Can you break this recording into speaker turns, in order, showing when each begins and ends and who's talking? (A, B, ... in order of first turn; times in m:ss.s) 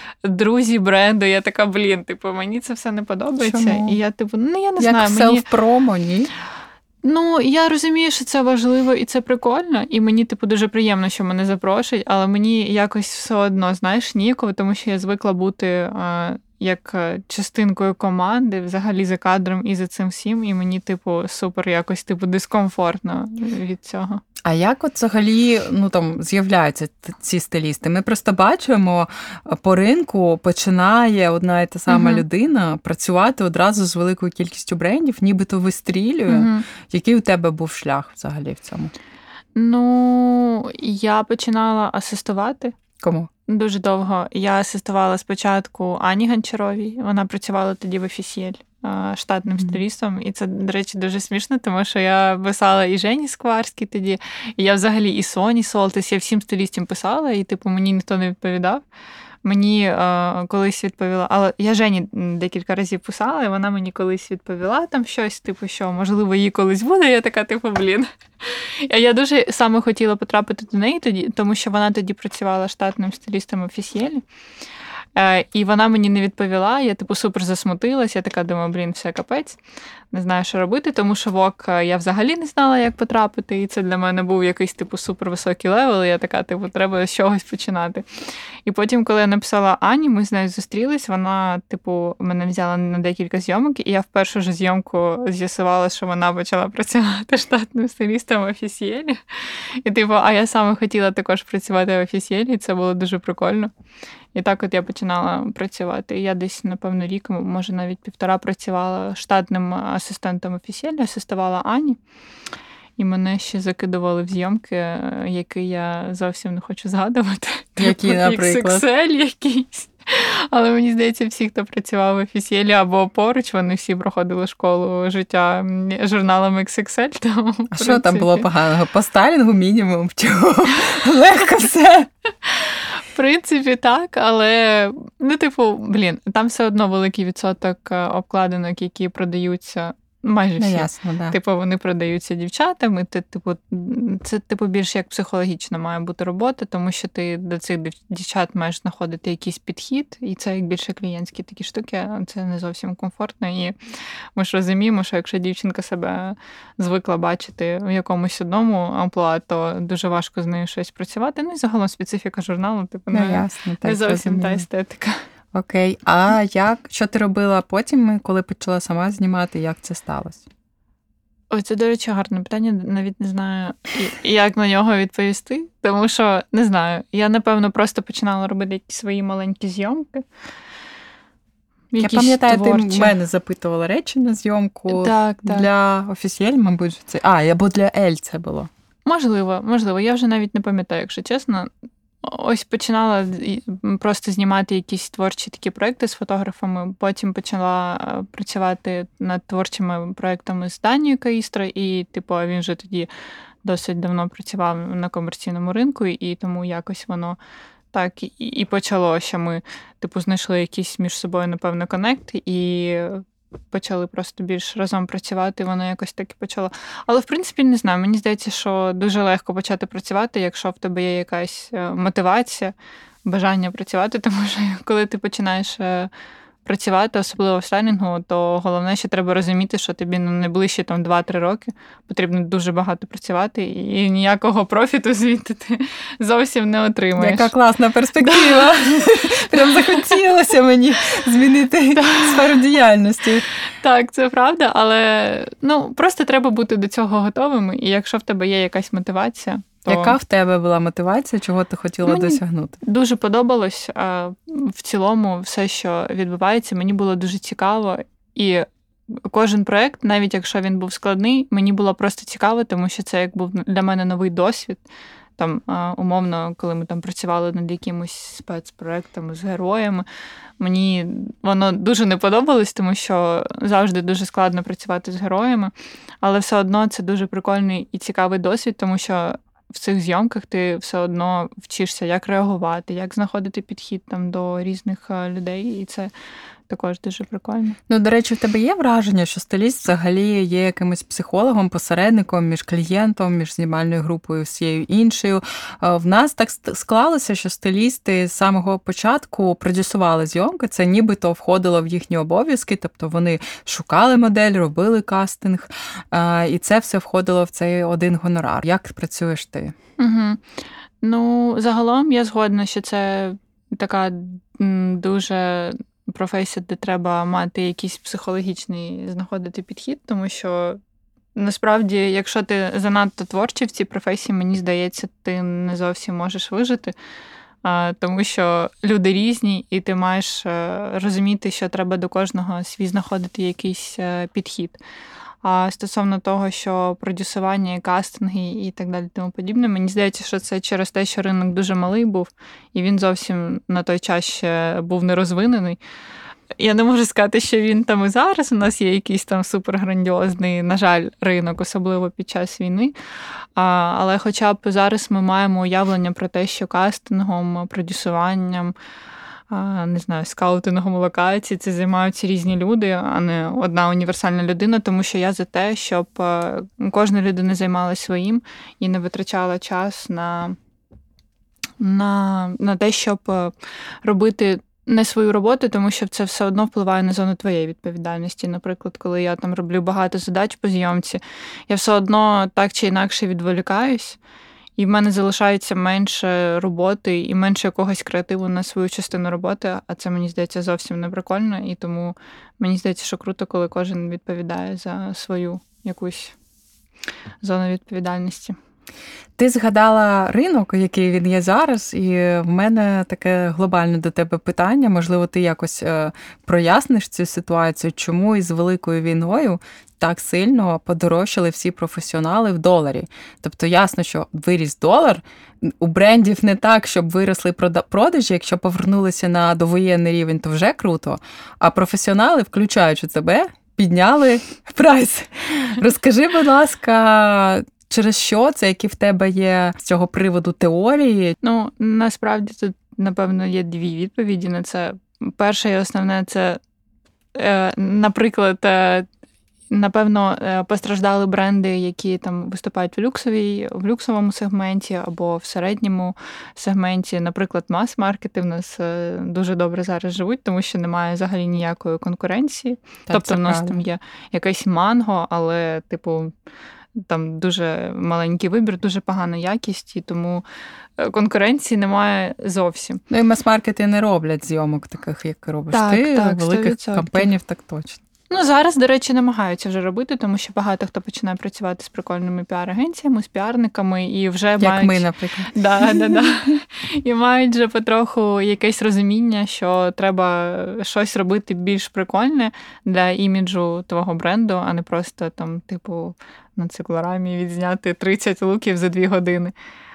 0:00.2-0:05.4 A
0:03.4-0:04.0 B
0:04.8-0:06.3 B
0:07.0-0:24.2 A
0:24.4-0:38.9 B
0:31.9-0:32.2 A
0:36.3-0:36.7 A
0:39.6-0:42.8 A
0:43.0-0:43.3 B
0:43.5-0:58.8 A
0:49.5-0:49.8 B
0:59.4-1:14.2 A
1:15.2-1:19.6 A
1:20.1-1:28.0 A
1:28.6-1:39.2 A
1:39.8-1:43.7 A
1:44.3-1:52.0 A
1:53.0-2:08.4 A
1:57.8-1:58.8 B
2:07.7-2:12.1 B
2:12.4-2:33.7 A
2:20.6-2:21.4 B
2:34.4-2:45.2 A
2:43.1-2:44.6 B
2:45.5-2:50.4 B
2:51.5-3:00.2 A
3:01.9-3:03.1 A
3:02.0-3:08.7 B
3:04.9-3:05.7 A
3:09.0-3:11.7 A
3:12.2-3:23.1 A
3:23.6-3:27.4 A
3:27.9-3:46.1 A
3:46.6-3:57.5 A
3:57.2-4:03.4 B
3:58.2-4:00.2 A
4:02.0-4:02.6 A
4:03.8-4:10.2 A
4:09.9-4:12.8 B
4:12.0-4:24.8 A
4:25.4-4:30.0 A
4:30.6-4:46.1 A
4:46.7-4:47.8 A
4:47.9-5:09.7 B
5:10.0-5:10.4 A
5:11.0-5:20.8 A
5:21.4-5:26.9 A
5:27.6-5:34.8 A
5:35.4-5:45.8 A
5:46.6-5:52.9 A
5:53.6-5:58.7 A
5:59.5-6:10.6 A
6:11.8-6:24.2 A
6:24.8-6:36.3 A
6:37.4-6:38.5 A
6:39.4-7:11.4 B
7:11.4-7:16.6 A
7:17.3-7:19.0 A
7:19.7-7:36.3 A
7:33.1-7:33.8 B
7:37.0-7:40.4 A
7:41.0-7:43.0 A
7:43.1-7:48.0 B
7:45.7-7:47.3 A
7:48.3-8:09.5 A
7:54.6-7:56.2 B